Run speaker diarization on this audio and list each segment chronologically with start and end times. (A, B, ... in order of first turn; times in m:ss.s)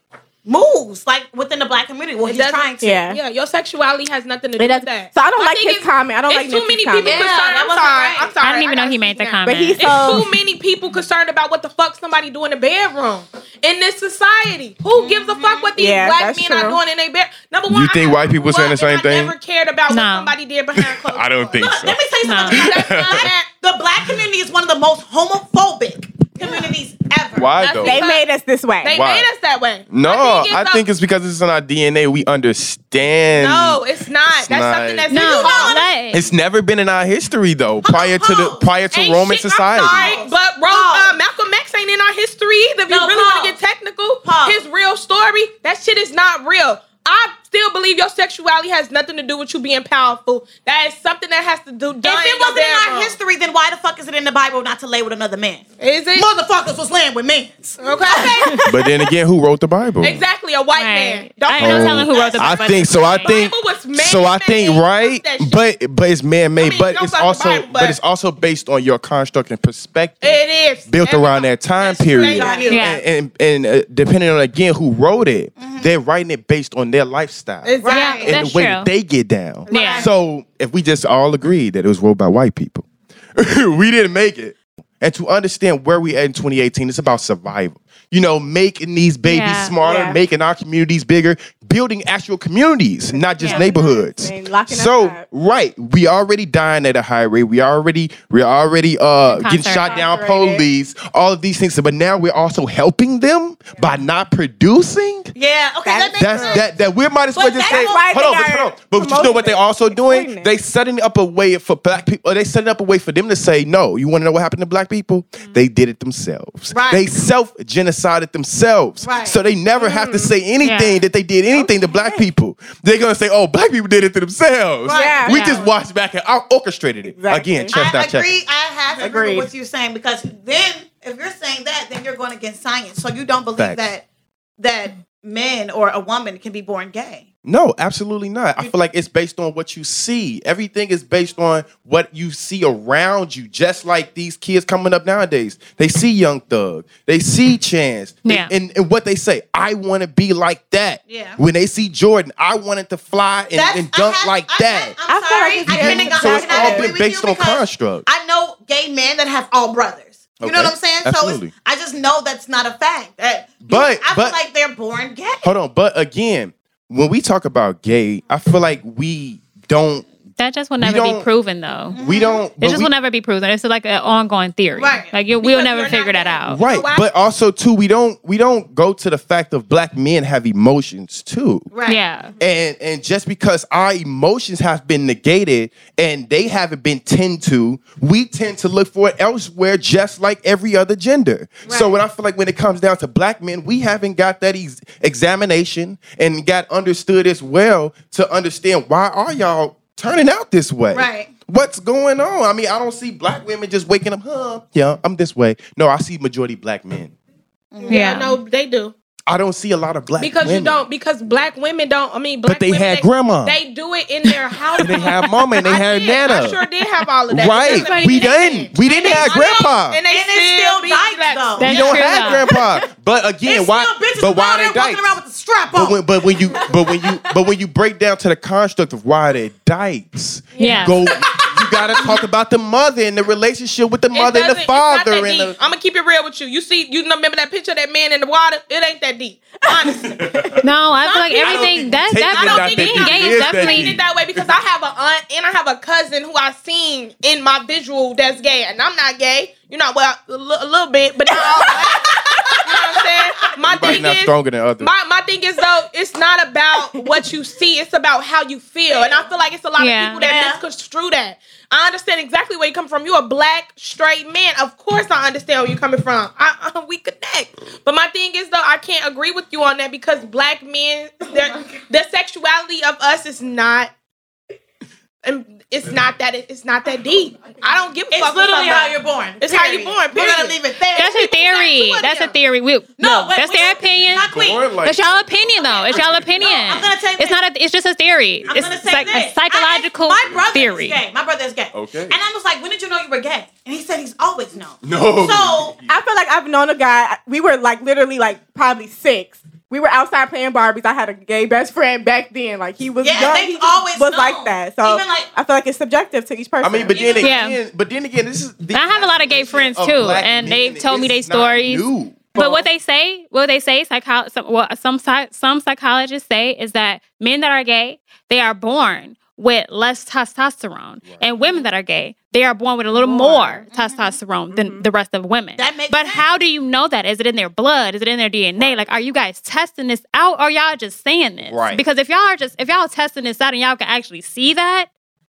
0:00.4-0:03.0 A
0:02.2-0:21.7 B
0:02.8-0:03.2 C
0:04.6-0:07.4 C
0:07.0-0:08.4 A
0:08.4-0:10.0 D
0:09.4-0:10.3 C
0:14.9-0:15.7 A
0:15.8-0:16.8 C
0:17.7-0:19.4 E
0:19.9-0:20.3 D
0:20.8-0:22.0 E
0:21.6-0:27.5 A
0:22.2-0:22.7 D
0:22.5-0:23.4 B
0:22.5-0:23.3 E
0:26.4-0:26.7 B
0:27.4-0:28.0 E
0:27.5-0:28.2 B
0:27.8-0:29.0 C
0:28.8-0:30.8 B
0:28.9-0:29.3 E
0:29.9-0:35.1 E
0:33.3-0:35.8 B
0:35.1-0:36.3 D
0:35.1-0:35.9 A
0:36.1-0:40.2 E
0:37.8-0:38.7 A
0:38.9-0:53.2 B
0:39.7-0:41.2 A
0:42.9-0:43.6 A
0:44.2-0:44.6 A
0:52.0-0:55.6 A
0:55.8-0:56.3 B
0:56.2-0:58.6 A
0:57.8-0:59.0 B
0:58.6-1:00.2 E
1:00.0-1:05.6 B
1:00.8-1:03.4 D
1:01.5-1:45.4 E
1:06.6-1:08.0 B
1:10.2-1:12.8 B
1:12.2-1:12.8 A
1:12.4-1:12.6 C
1:12.7-1:13.0 D
1:15.6-1:15.9 A
1:17.6-1:18.2 B
1:17.8-1:18.3 A
1:17.9-1:18.9 D
1:19.7-1:20.1 D
1:19.7-1:20.1 A
1:19.7-1:20.1 B
1:29.2-1:29.8 D
1:29.8-1:30.2 C
1:33.1-1:35.2 C
1:33.4-1:33.7 D
1:39.3-1:40.1 D
1:39.8-1:40.6 C
1:45.4-1:46.7 A
1:45.8-1:46.6 C
1:46.2-2:08.3 E
1:47.4-1:48.1 A
1:47.6-1:50.5 C
1:56.7-1:57.0 A
1:59.0-1:59.4 A
1:59.8-2:00.3 C
2:00.6-2:01.0 D
2:01.6-2:02.2 C
2:04.8-2:05.7 A
2:04.9-2:05.6 C
2:07.1-2:07.8 C
2:07.7-2:14.0 A
2:09.0-2:09.5 C
2:13.6-2:13.9 E
2:14.6-2:17.3 A
2:17.4-2:35.0 E
2:28.2-2:28.5 D
2:31.1-2:31.4 A
2:33.5-2:45.5 A
2:35.1-2:36.9 C
2:35.7-2:38.1 E
2:40.4-2:41.5 E
2:43.6-2:44.4 E
2:45.4-2:50.1 E
2:50.4-2:52.0 D
2:50.8-2:51.3 E
2:51.9-2:52.4 A
2:51.9-2:52.9 E
2:52.6-2:56.6 D
2:54.8-2:55.1 A
2:55.4-2:57.1 B
2:56.5-3:01.7 E
3:01.7-3:02.0 A
3:01.9-3:02.4 D
3:02.4-3:27.2 E
3:11.6-3:11.9 A
3:20.9-3:21.3 A
3:27.7-3:28.4 A
3:27.8-3:28.9 B
3:27.9-3:28.4 D
3:29.3-3:30.8 E
3:30.2-3:41.8 B
3:32.4-3:33.6 E
3:34.2-3:36.6 E
3:37.3-3:40.0 E
3:37.7-3:38.3 D
3:38.8-3:42.3 A
3:41.6-3:42.5 D
3:41.6-3:45.0 E
3:43.4-3:46.0 A
3:45.7-3:55.6 E
3:50.6-3:51.4 B
3:50.6-3:51.0 D
3:51.3-3:52.1 A
3:54.1-4:00.3 B
3:59.8-4:00.7 E
4:00.2-4:00.6 C
4:00.6-4:04.0 D
4:01.0-4:01.8 B
4:01.3-4:04.6 E
4:02.3-4:33.9 B
4:11.4-4:13.0 A
4:13.6-4:14.9 E
4:18.9-4:19.2 A
4:19.8-4:20.3 D
4:20.2-4:20.6 A
4:35.2-4:40.6 B
4:38.1-4:42.1 A
4:41.0-4:44.3 D
4:42.0-4:42.3 B
4:43.0-4:44.8 A
4:44.3-4:46.5 E
4:44.8-4:51.0 D
4:45.6-4:47.4 A
4:48.4-4:49.3 E
4:48.5-4:55.8 A
4:51.7-4:52.2 E
4:54.8-4:56.0 E
4:55.9-5:07.0 C
5:03.0-5:05.3 A
5:03.2-5:03.5 E
5:06.6-5:12.4 E
5:07.0-5:07.4 B
5:07.2-5:07.6 D
5:08.7-5:34.9 D
5:12.4-5:12.7 C
5:21.0-5:21.3 E
5:23.1-5:23.5 B
5:23.7-5:24.2 A
5:24.5-5:24.8 C
5:25.6-5:26.3 A
5:28.6-5:28.9 E
5:31.5-5:31.8 E